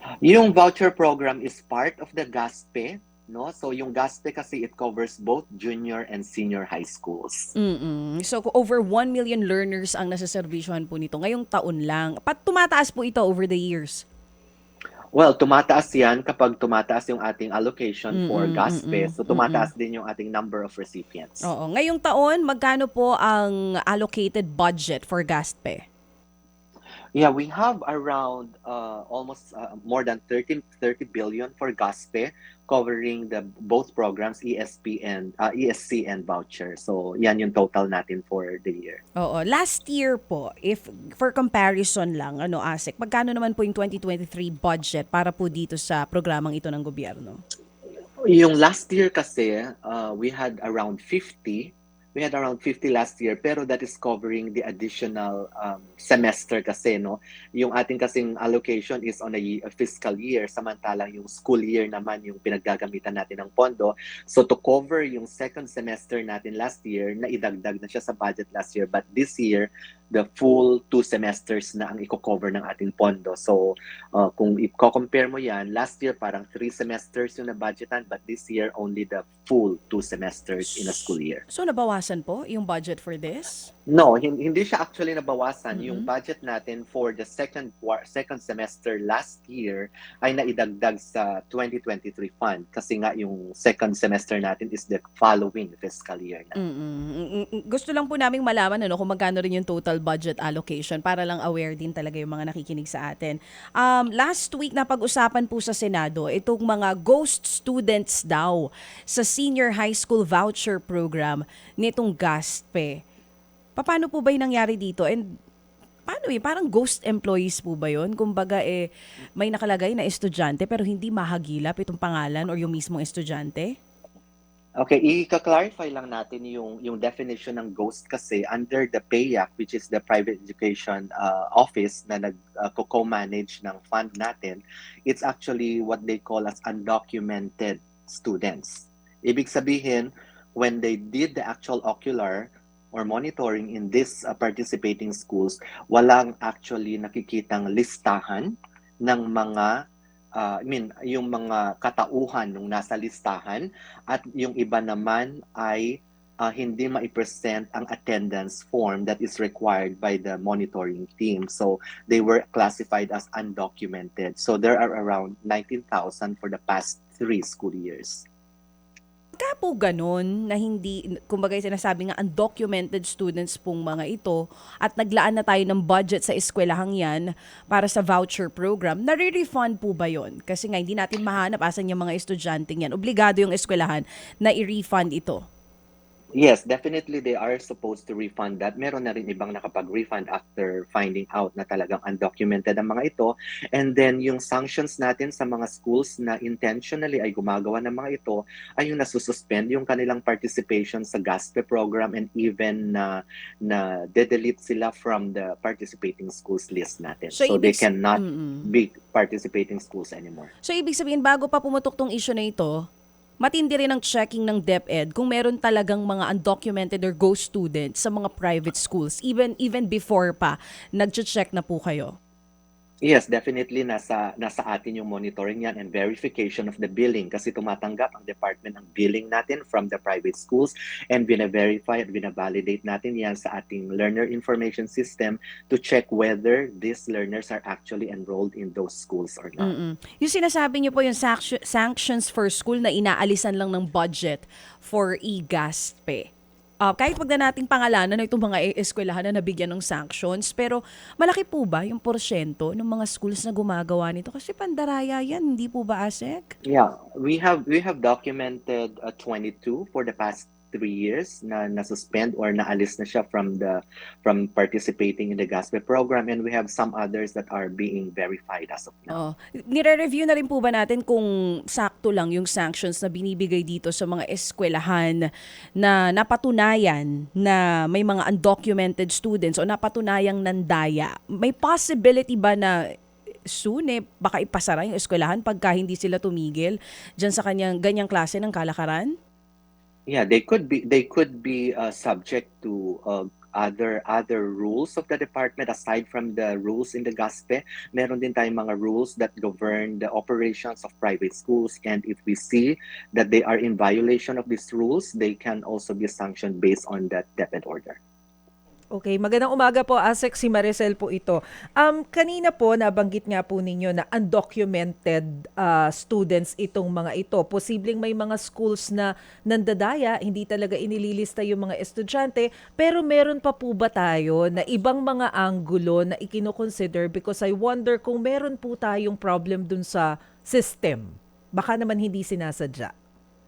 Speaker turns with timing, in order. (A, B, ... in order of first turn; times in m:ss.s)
0:00.2-0:07.5 A
0:07.6-0:14.0 B
0:15.1-0:21.5 A
0:18.1-0:19.7 B
0:21.4-0:25.8 B
0:27.1-0:39.0 A
0:39.2-0:47.4 B
0:48.2-1:21.4 A
1:20.8-1:23.7 B
1:23.9-1:36.6 A
1:25.7-1:26.1 B
1:36.6-1:53.0 B
1:53.8-1:55.2 B
1:56.1-1:58.9 B
1:59.4-2:03.7 B
2:04.8-2:29.7 A
2:30.4-2:48.2 A
2:49.4-3:05.4 B
3:06.4-3:30.5 A
3:27.3-3:28.7 B
3:30.6-3:32.8 B
3:33.4-3:42.1 B
3:43.0-3:59.7 A
3:59.6-4:06.2 B
4:06.8-4:16.5 B
4:16.6-4:29.2 A
4:29.1-4:42.8 B
4:43.5-4:49.1 B
4:50.1-5:08.0 A
5:08.9-5:32.9 C